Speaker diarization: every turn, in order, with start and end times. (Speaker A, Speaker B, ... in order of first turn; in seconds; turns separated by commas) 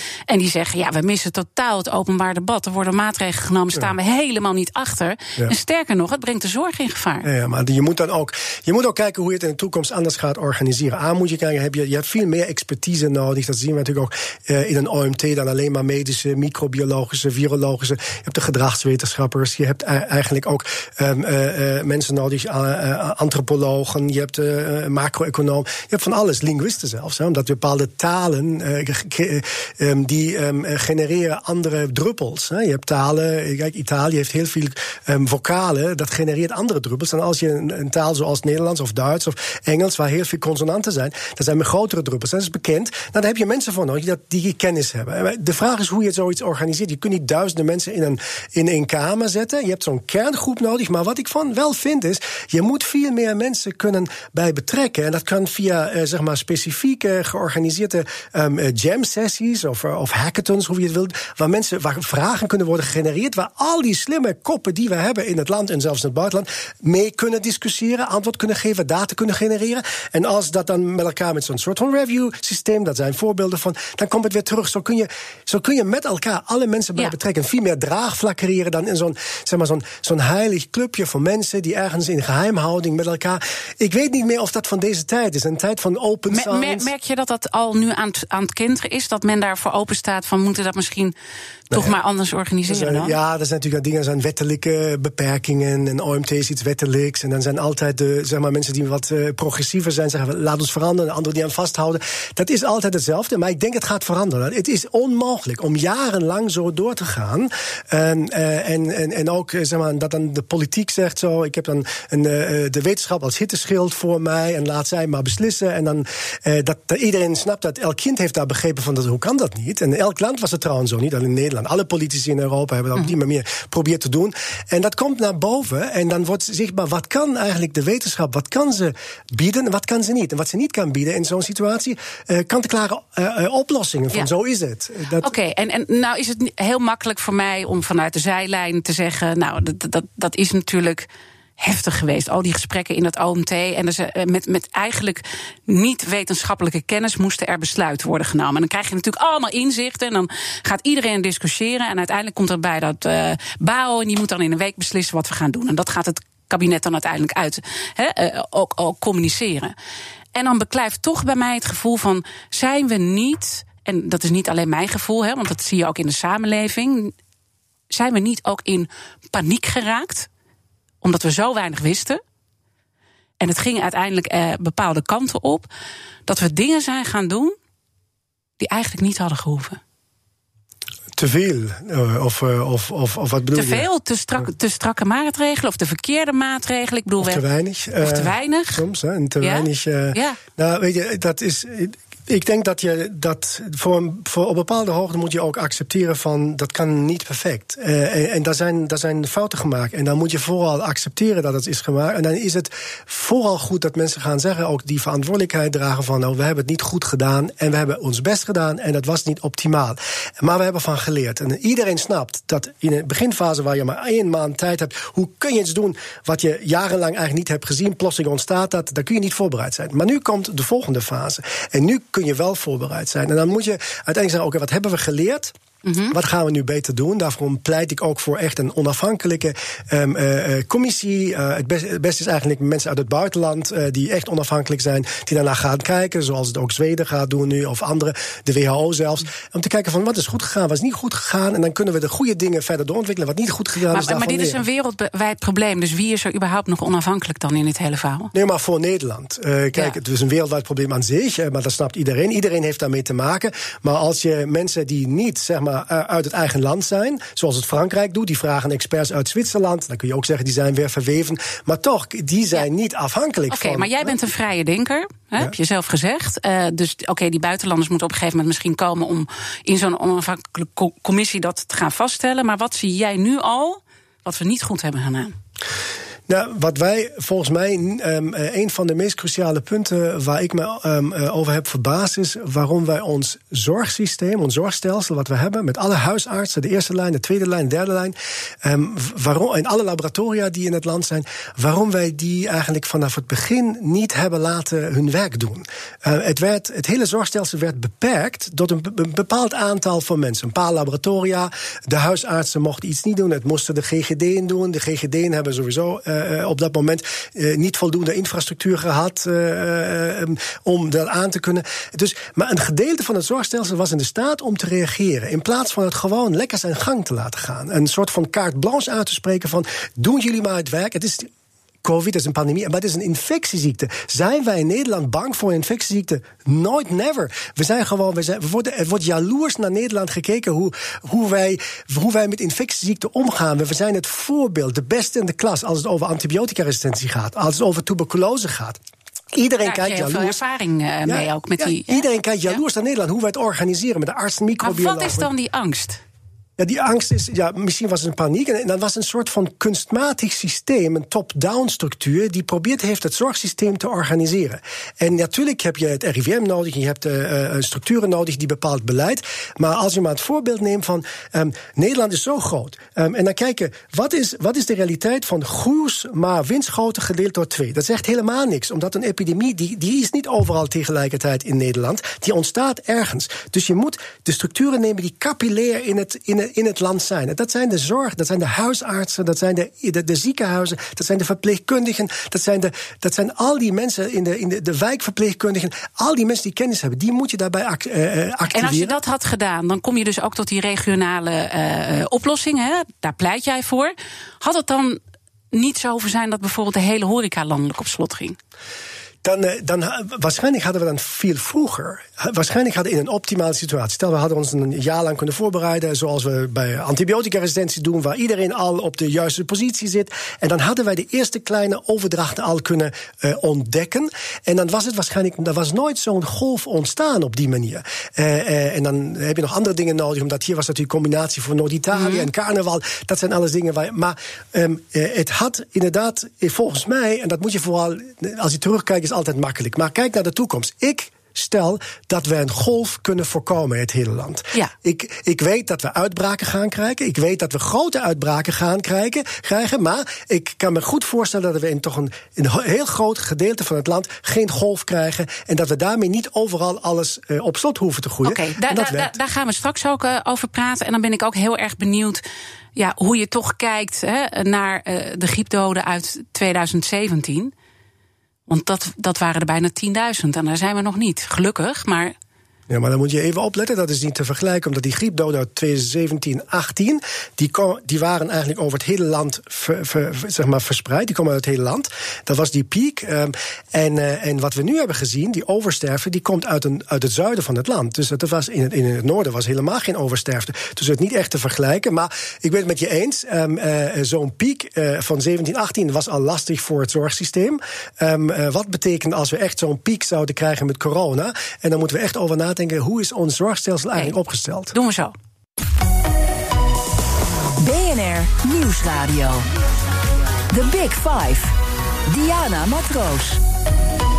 Speaker A: 0.3-7.2, Speaker B: 7.2-86.9, Speaker A: 86.3-91.1, Speaker A: 91.7-93.2, Speaker B: 92.7-135.3, Speaker A: 135.2-141.1, Speaker A: 141.6-159.7, Speaker A: 160.3-167.1, Speaker A: 167.9-170.3, Speaker A: 171.0-172.2, Speaker A: 173.4-175.7, Speaker A: 176.3-177.5, Speaker A: 178.6-179.8, Speaker B: 181.2-183.9, Speaker A: 183.5-187.4, Speaker B: 187.2-225.5, Speaker A: 188.0-188.8, Speaker A: 189.4-190.4, Speaker A: 225.8-226.1, Speaker B: 226.1-244.6, Speaker A: 243.9-248.3, Speaker B: 248.3-264.1, Speaker A: 263.5-275.3, Speaker B: 276.3-321.3, Speaker B: 321.8-338.8, Speaker B: 339.3-340.4, Speaker A: 339.6-342.5, Speaker B: 341.1-345.3, Speaker A: 344.6-346.0, Speaker B: 346.6-389.0, Speaker A: 388.5-395.0, Speaker A: 395.5-398.4, Speaker B: 399.2-449.1, Speaker A: 421.9-422.3, Speaker A: 448.2-452.2, Speaker A: 452.8-457.5, Speaker A: 458.5-462.1, Speaker B: 462.7-494.7, Speaker A: 494.7-495.1, Speaker C: 497.6-499.5, Speaker C: 500.5-501.5, Speaker C: 502.1-503.4